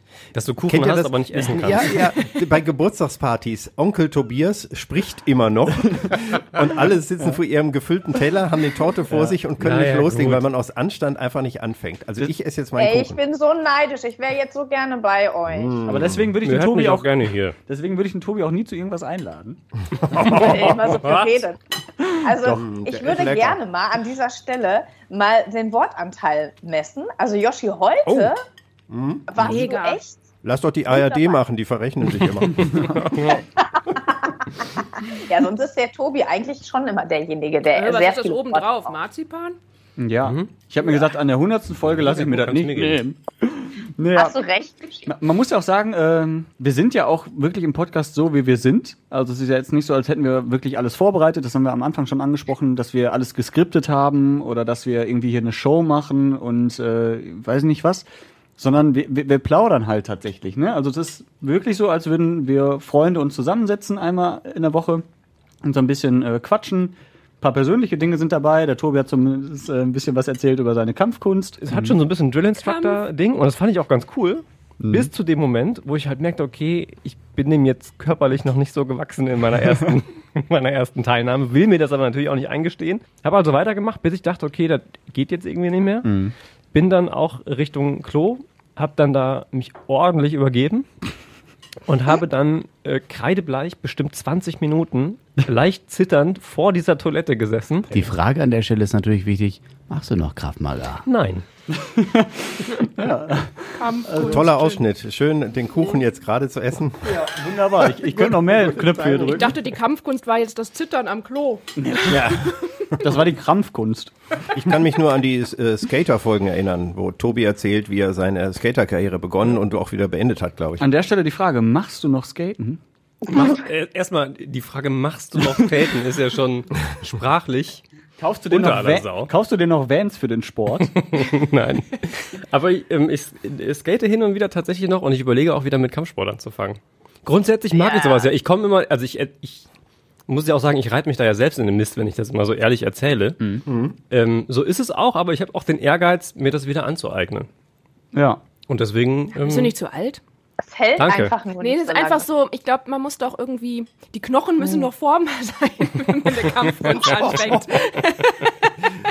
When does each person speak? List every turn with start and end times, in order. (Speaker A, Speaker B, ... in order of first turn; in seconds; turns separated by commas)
Speaker A: 0.3-2.0, Speaker B: 0.7-13.2, Speaker A: 9.6-10.4, Speaker C: 12.8-15.8, Speaker B: 15.5-16.3, Speaker D: 15.9-19.6, Speaker A: 16.4-17.6, Speaker C: 20.1-21.6, Speaker A: 20.1-21.2, Speaker C: 22.2-28.4, Speaker B: 22.4-23.6, Speaker B: 28.9-29.6, Speaker C: 29.3-30.2, Speaker E: 29.4-30.0, Speaker B: 30.4-32.9, Speaker C: 30.9-31.4, Speaker A: 32.7-33.4, Speaker C: 33.3-38.9, Speaker E: 37.7-39.6, Speaker D: 40.0-44.4, Speaker A: 40.2-40.5, Speaker A: 41.9-43.0, Speaker C: 44.1-45.1, Speaker D: 45.0-58.0, Speaker D: 58.6-65.0, Speaker D: 65.6-71.9, Speaker A: 71.6-86.1, Speaker E: 72.6-73.0, Speaker D: 74.8-75.1, Speaker D: 86.0-86.3, Speaker A: 86.7-90.9, Speaker A: 91.9-98.1, Speaker F: 97.9-101.0, Speaker A: 101.0-101.4, Speaker D: 101.7-104.5, Speaker E: 103.8-104.8, Speaker B: 104.2-107.2, Speaker D: 107.0-109.5, Speaker B: 108.2-109.4, Speaker E: 109.3-111.7, Speaker D: 111.8-114.1, Speaker B: 114.5-120.9, Speaker D: 120.8-122.8, Speaker A: 123.3-127.8, Speaker D: 128.2-130.9, Speaker A: 128.5-129.3, Speaker A: 131.0-139.7, Speaker C: 137.7-138.3, Speaker A: 140.3-143.4, Speaker B: 143.7-143.9, Speaker A: 144.1-147.5, Speaker D: 148.1-148.4, Speaker A: 148.7-149.7, Speaker E: 149.4-150.2, Speaker C: 150.6-152.2, Speaker A: 151.0-151.3, Speaker E: 151.6-158.7